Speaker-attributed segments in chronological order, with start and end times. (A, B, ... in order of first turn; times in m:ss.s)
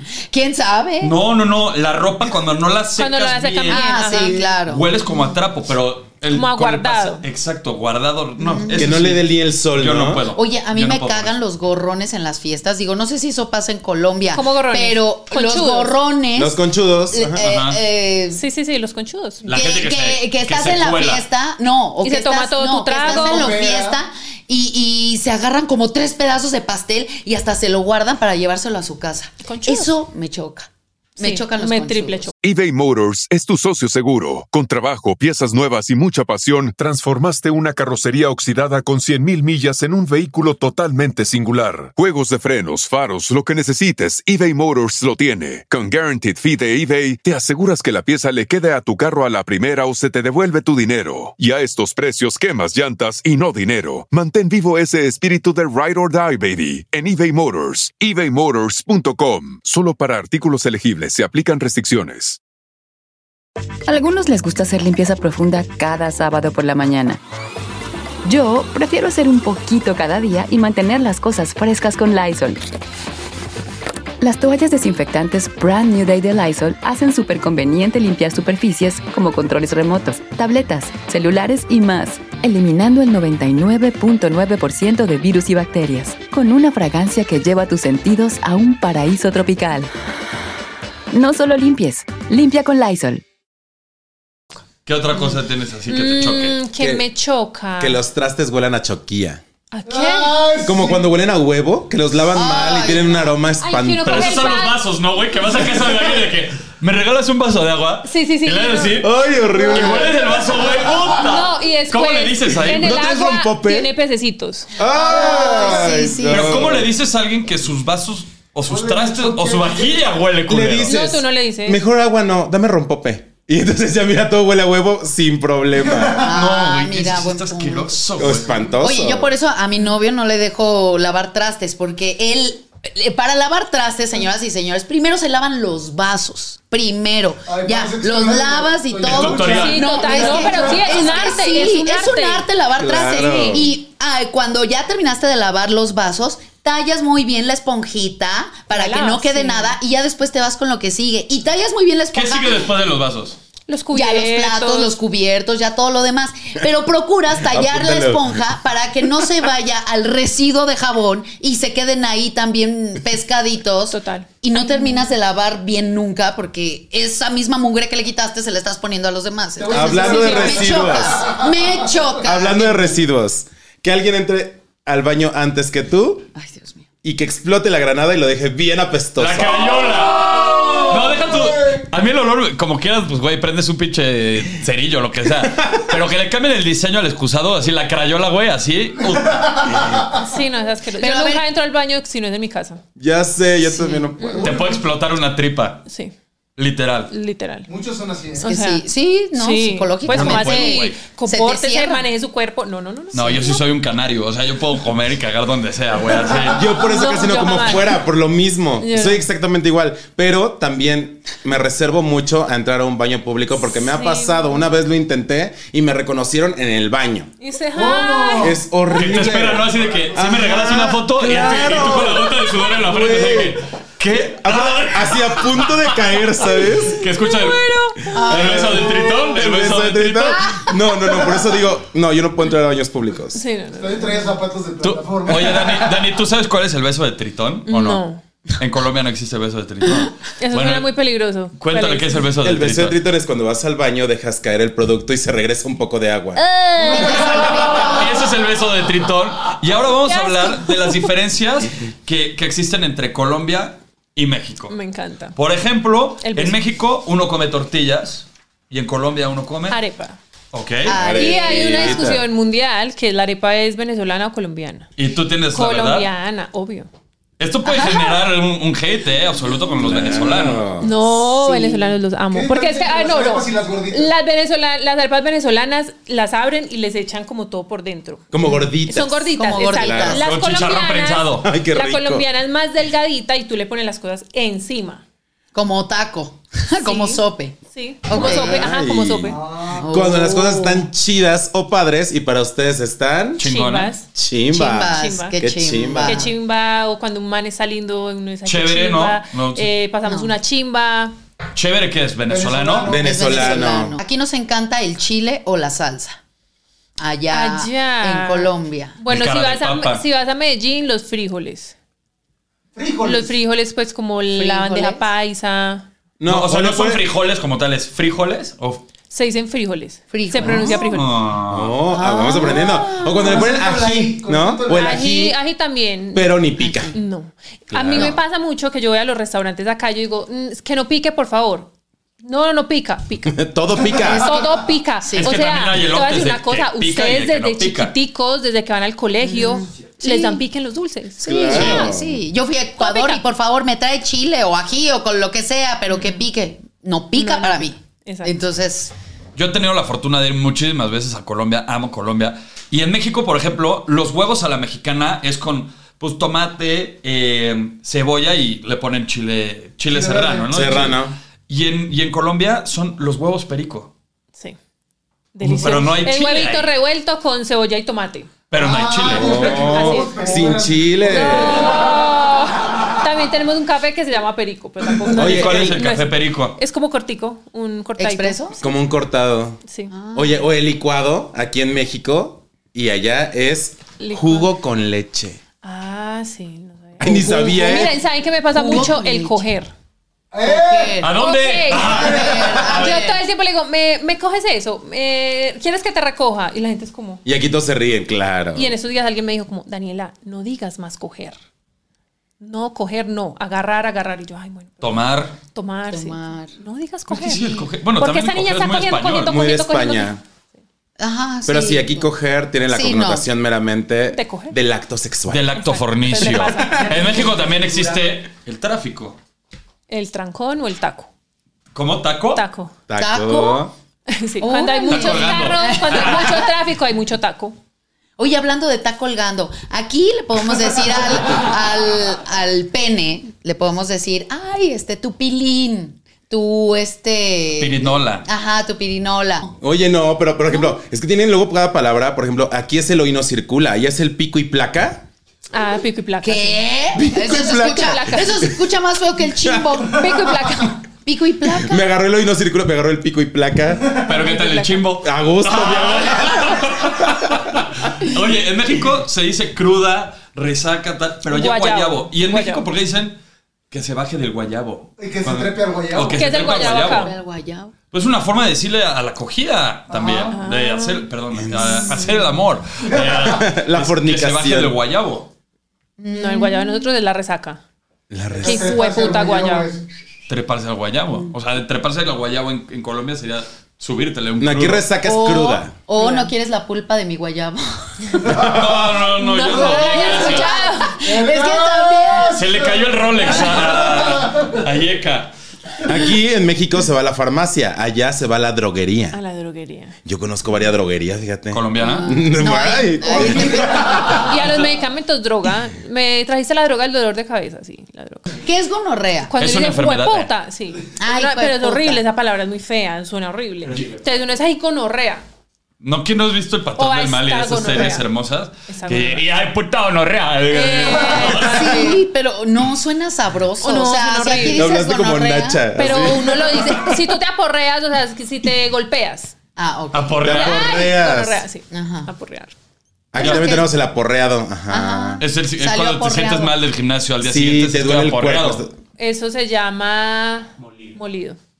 0:00.3-0:01.1 A
0:01.0-0:11.3 B
0:03.0-0:04.5 C
0:03.7-0:04.9 A
0:06.3-0:07.2 C
0:08.4-0:09.0 A
0:08.8-0:10.2 D
0:10.3-0:18.4 A
0:14.3-0:15.9 C
0:16.4-0:17.4 D
0:17.4-0:17.8 B
0:18.3-0:19.4 C
0:19.4-0:21.2 B
0:19.4-0:32.3 A
0:22.0-0:23.5 C
0:23.0-0:24.0 E
0:29.4-0:29.9 C
0:31.2-0:32.3 C
0:32.4-1:02.4 F
1:03.9-1:07.2 G
1:08.2-1:12.6 G
1:14.2-1:29.9 G
1:31.1-1:33.2 G
1:34.8-1:36.6 B
1:35.9-1:38.0 C
1:36.8-1:37.0 D
1:37.8-1:39.4 D
1:39.7-1:40.4 C
1:39.9-1:41.1 E
1:40.6-1:44.5 D
1:42.3-1:43.3 A
1:43.6-1:44.8 C
1:44.0-1:49.1 B
1:48.0-1:49.0 C
1:49.0-1:50.3 D
1:49.7-1:53.0 B
1:49.8-1:51.0 E
1:51.2-1:54.7 C
1:52.7-1:53.9 D
1:54.8-1:56.9 D
1:54.9-1:56.8 A
1:55.3-1:55.7 E
1:56.3-2:01.0 B
1:58.6-2:00.1 E
2:00.5-2:06.3 D
2:00.8-2:01.8 C
2:06.1-2:08.1 A
2:06.2-2:08.6 B
2:08.2-2:09.3 D
2:08.8-2:32.6 A
2:17.4-2:21.4 E
2:19.0-2:19.9 B
2:19.5-2:22.5 C
2:22.8-2:23.7 D
2:28.7-2:29.8 C
2:32.1-2:33.4 B
2:33.7-2:34.9 C
2:33.9-2:53.0 A
2:37.5-2:38.4 D
2:43.9-2:45.1 C
2:49.6-2:51.8 E
2:49.7-2:51.2 D
2:49.9-2:50.6 C
2:52.2-2:56.3 D
2:56.3-2:56.8 A
2:57.0-2:59.7 D
2:59.2-3:09.8 B
3:00.3-3:01.8 E
3:09.2-3:10.1 E
3:10.2-3:12.8 C
3:11.0-3:11.4 A
3:13.0-3:14.5 D
3:13.6-3:14.0 A
3:14.2-3:14.6 C
3:14.3-3:14.7 E
3:14.4-3:15.8 B
3:15.8-3:16.1 C
3:16.6-3:17.1 B
3:17.1-3:17.7 C
3:17.7-3:18.5 E
3:18.4-3:23.6 C
3:18.4-3:22.0 A
3:20.1-3:21.0 B
3:23.1-3:26.8 B
3:26.5-3:37.3 D
3:26.8-3:28.0 C
3:28.8-3:29.2 C
3:33.6-3:34.7 C
3:37.4-3:38.6 C
3:37.7-3:38.6 E
3:38.4-3:43.6 D
3:38.9-3:50.6 B
3:39.6-3:40.1 E
3:44.1-3:47.0 D
3:47.1-3:48.1 C
3:48.1-3:49.3 A
3:48.2-3:53.4 D
3:53.3-3:54.3 C
3:53.7-3:56.0 E
3:54.8-3:58.0 B
3:57.7-3:58.2 C
3:58.6-4:00.9 B
4:00.4-4:02.2 C
4:01.5-4:03.0 B
4:02.4-4:06.4 D
4:06.4-4:08.0 C
4:06.8-4:07.8 E
4:07.0-4:14.8 B
4:10.0-4:11.1 C
4:14.7-4:15.4 C
4:15.3-4:19.8 B
4:16.2-4:16.6 C
4:19.7-4:20.2 C
4:20.5-4:21.0 B
4:20.8-4:22.1 A
4:20.9-4:22.2 D
4:21.1-4:24.9 C
4:25.0-4:26.1 B
4:25.5-4:26.9 C
4:27.4-4:30.6 B
4:27.6-4:28.2 A
4:29.8-4:30.9 D
4:30.8-4:38.3 C
4:31.1-4:31.9 A
4:32.3-4:34.1 E
4:38.3-4:40.2 D
4:38.4-4:40.2 A
4:38.8-4:45.0 C
4:40.2-4:41.5 B
4:41.4-4:42.2 D
4:45.5-4:48.7 A
4:46.8-4:49.4 C
4:48.1-4:53.4 D
4:49.3-4:49.9 E
4:49.7-4:50.9 A
4:53.4-4:53.9 B
4:53.4-4:54.1 C
4:54.1-4:56.3 D
4:54.5-4:56.3 A
4:54.8-4:55.4 C
4:56.0-5:01.1 C
4:58.4-4:59.7 B
5:00.0-5:00.3 A
5:01.5-5:02.9 B
5:02.3-5:03.7 E
5:02.9-5:04.0 D
5:02.9-5:06.2 A
5:07.0-5:09.0 A
5:07.3-5:11.7 C
5:09.1-5:10.0 B
5:12.7-5:13.3 E
5:13.0-5:15.8 C
5:14.3-5:15.1 A
5:16.2-5:17.0 D
5:16.2-5:18.8 B
5:19.1-5:21.2 C
5:20.1-5:20.8 A
5:20.9-5:21.7 B
5:21.4-5:25.4 D
5:21.9-5:23.4 A
5:22.5-5:23.1 C
5:23.0-5:25.1 E
5:24.7-5:31.7 C
5:26.1-5:26.9 D
5:26.6-5:26.9 A
5:27.7-5:28.2 D
5:32.2-5:33.4 C
5:33.3-5:34.4 D
5:34.0-5:41.9 C
5:35.0-5:35.4 A
5:35.2-5:37.9 B
5:39.2-5:40.4 A
5:41.2-5:42.2 D
5:41.4-5:48.9 A
5:42.8-5:43.2 C
5:47.2-5:48.4 C
5:49.3-6:03.9 B
5:59.9-6:00.8 E
6:00.5-6:01.2 D
6:05.3-6:08.3 C
6:05.4-6:06.7 B
6:08.5-6:09.7 B
6:08.5-6:11.9 E
6:09.1-6:18.5 C
6:09.1-6:11.8 D
6:15.2-6:15.7 D
6:15.2-6:16.6 B
6:18.0-6:18.6 A
6:18.6-6:19.6 D
6:19.6-6:19.9 C
6:19.9-6:20.5 A
6:20.1-6:25.4 D
6:24.0-6:24.5 C
6:25.6-6:29.7 C
6:27.0-6:28.0 D
6:27.0-6:28.0 A
6:28.5-6:29.4 A
6:30.3-6:31.1 E
6:30.4-6:31.2 A
6:31.0-6:33.0 B
6:31.1-6:37.2 C
6:31.7-6:33.2 A
6:31.8-6:32.8 E
6:37.2-6:38.7 D
6:38.5-6:41.4 C
6:42.4-6:45.0 C
6:44.8-6:45.4 B
6:45.5-6:50.1 C
6:45.9-6:46.5 A
6:47.1-6:49.3 B
6:47.4-6:47.6 A
6:49.2-6:50.2 D
6:51.0-6:52.1 A
6:51.4-6:55.4 D
6:52.7-6:53.3 A
6:54.1-6:54.6 C
6:55.3-6:59.2 B
6:55.6-6:57.0 C
6:56.2-6:57.2 A
6:56.6-6:58.2 E
6:59.9-7:01.1 C
7:01.7-7:02.4 B
7:02.3-7:02.7 C
7:02.9-7:03.7 D
7:02.9-7:03.7 A
7:04.1-7:07.6 C
7:04.4-7:06.5 A
7:04.9-7:06.3 B
7:08.2-7:19.5 A
7:17.6-7:18.2 B
7:19.6-7:25.0 D
7:25.5-7:26.6 C
7:26.2-7:31.9 A
7:26.9-7:28.6 D
7:27.3-7:28.5 C
7:29.4-7:29.9 D
7:29.9-7:30.8 C
7:31.5-7:34.0 D
7:33.9-7:43.2 B
7:34.1-7:34.9 C
7:35.0-7:37.6 D
7:41.2-7:42.6 C
7:43.7-7:47.2 B
7:45.0-7:46.4 E
7:46.1-7:47.1 C
7:46.5-7:47.7 A
7:47.9-7:55.3 B
7:49.9-7:50.4 E
7:50.3-7:51.0 C
7:51.3-7:52.1 D
7:53.1-7:54.7 D
7:56.0-7:56.9 A
7:56.1-7:57.6 C
7:58.1-7:58.8 D
7:58.3-7:59.8 E
7:58.4-7:59.7 C
8:00.3-8:04.8 B
8:04.4-8:05.7 D
8:05.0-8:07.8 A
8:06.0-8:06.3 C
8:08.3-8:10.5 B
8:08.3-8:08.8 E
8:08.3-8:08.8 D
8:09.1-8:11.0 C
8:09.5-8:09.8 E
8:09.6-8:12.5 A
8:11.0-8:14.5 E
8:12.4-8:15.3 B
8:15.8-8:19.2 D
8:19.1-8:20.0 C
8:20.0-8:23.7 D
8:21.5-8:22.1 B
8:21.8-8:24.3 A
8:23.3-8:24.1 E
8:23.8-8:28.4 C
8:28.4-8:29.3 A
8:29.2-8:35.2 C
8:29.4-8:30.3 B
8:31.0-8:32.0 A
8:33.7-8:34.0 B
8:35.8-8:41.9 B
8:36.8-8:38.0 C
8:38.7-8:39.2 C
8:40.5-8:41.9 C
8:41.2-8:46.3 A
8:43.6-8:44.7 C
8:44.5-8:47.0 D
8:45.8-8:49.3 C
8:49.6-8:50.8 A
8:49.9-8:50.6 B
8:50.2-8:51.4 D
8:50.3-8:52.5 C
8:51.7-8:52.1 A
8:53.1-8:55.2 D
8:53.1-8:53.7 A
8:53.2-8:53.6 B
8:54.7-8:56.5 A
8:55.2-8:58.6 B
8:57.2-8:58.7 D
8:59.0-9:01.4 C